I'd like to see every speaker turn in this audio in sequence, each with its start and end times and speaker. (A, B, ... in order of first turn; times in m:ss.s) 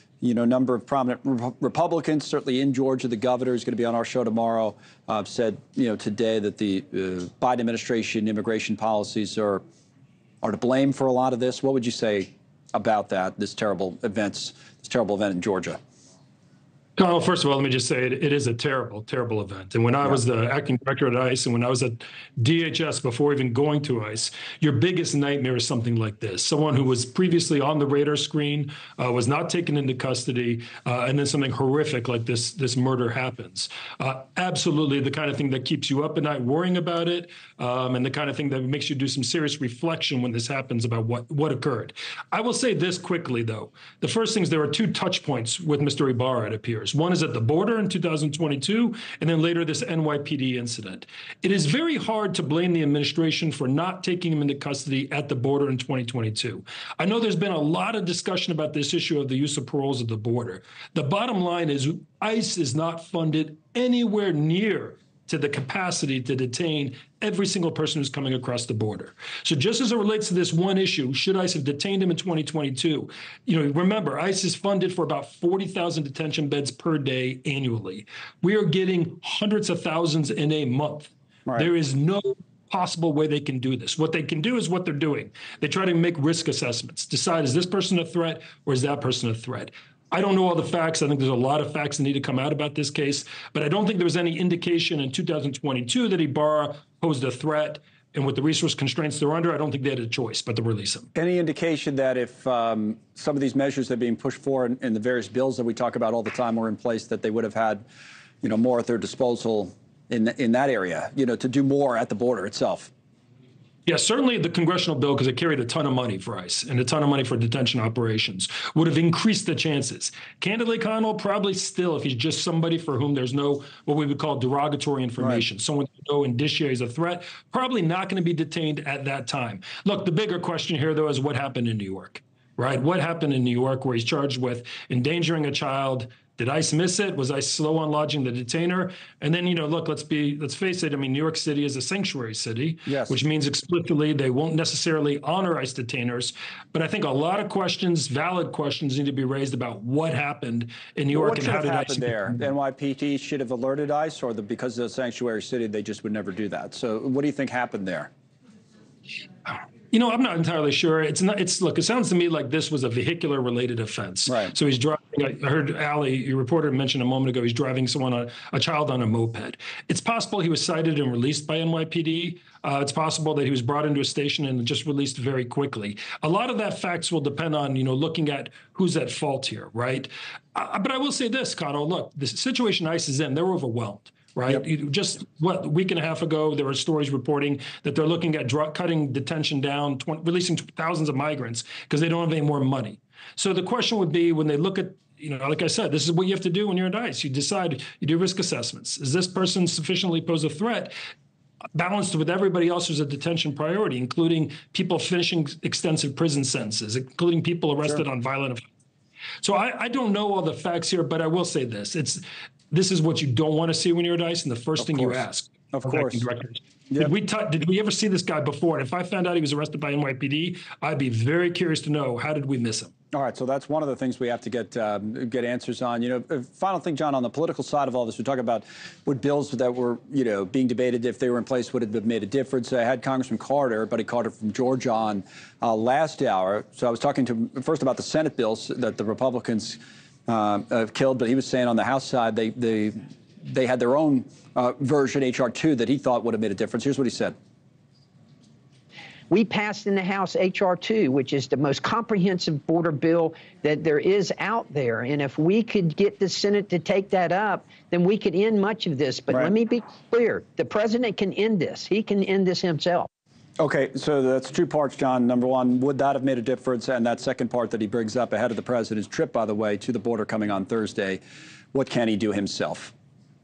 0:00.2-0:09.6 A
0:10.4-0:15.8 A
0:17.0-1:41.1 B
1:41.2-1:47.8 A
1:48.4-1:52.9 A
1:53.9-2:32.3 B
2:05.2-2:05.4 A
2:22.9-2:23.2 A
2:31.1-2:38.1 A
2:39.5-3:20.9 B
2:44.3-2:44.5 A
3:21.8-3:28.6 B
3:29.4-3:42.9 B
3:34.8-3:36.3 A
3:43.1-4:07.4 A
4:09.3-4:23.1 C
4:23.6-4:31.2 A
4:31.7-4:32.9 A